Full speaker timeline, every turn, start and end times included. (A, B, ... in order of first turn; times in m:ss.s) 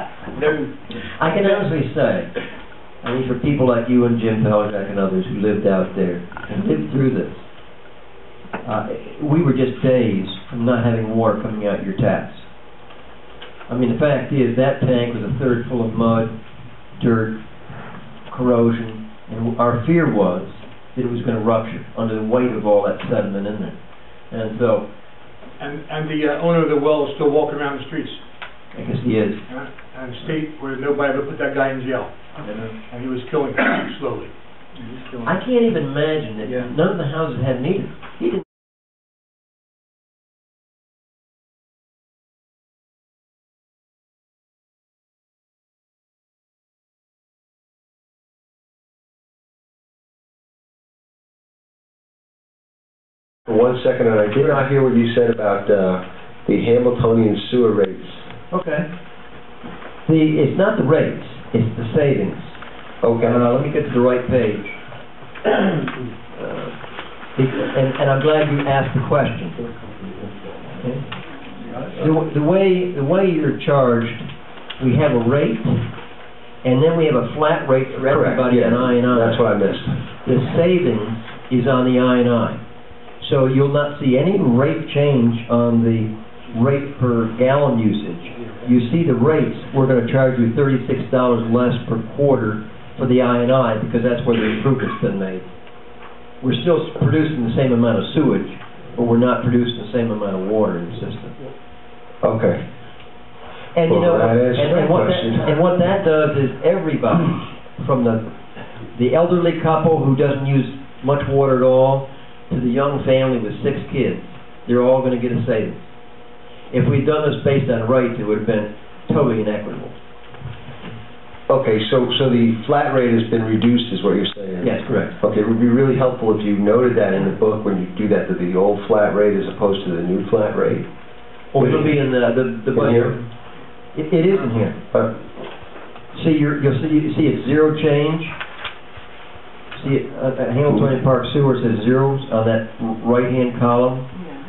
0:00.9-0:02.3 A
0:03.0-0:07.5 A
0:08.6-0:12.5 A
0:13.7-0:16.3 A
0:17.0-0:17.4 A
0:18.3-0:23.8 A
0:24.3-0:24.8 A
0:25.6-0:28.2 B
0:28.7-0:29.4 A
0:29.5-0:35.3 B
0:35.2-0:38.4 A
0:53.5-0:58.3 C
0:58.5-0:58.8 A
1:00.1-1:02.6 A
1:03.0-1:03.5 C
1:03.2-1:04.7 A
1:06.3-1:06.8 A
1:07.3-1:09.6 A
1:10.8-1:11.0 A
1:11.9-1:14.3 A
1:14.8-1:15.8 A
1:16.6-1:19.4 A
1:18.0-1:20.0 C
1:20.2-1:22.6 A
1:23.2-1:35.5 A
1:36.4-1:41.3 A
1:42.2-1:42.6 C
1:43.7-1:48.3 A
1:43.8-1:45.5 C
1:48.9-1:55.8 A
1:56.7-1:59.9 A
2:01.5-2:10.8 C
2:04.6-2:05.1 A
2:11.5-2:13.2 A
2:11.6-2:12.0 C
2:12.7-2:13.2 C
2:13.9-2:14.8 A
2:16.1-2:18.3 A
2:19.7-2:24.1 A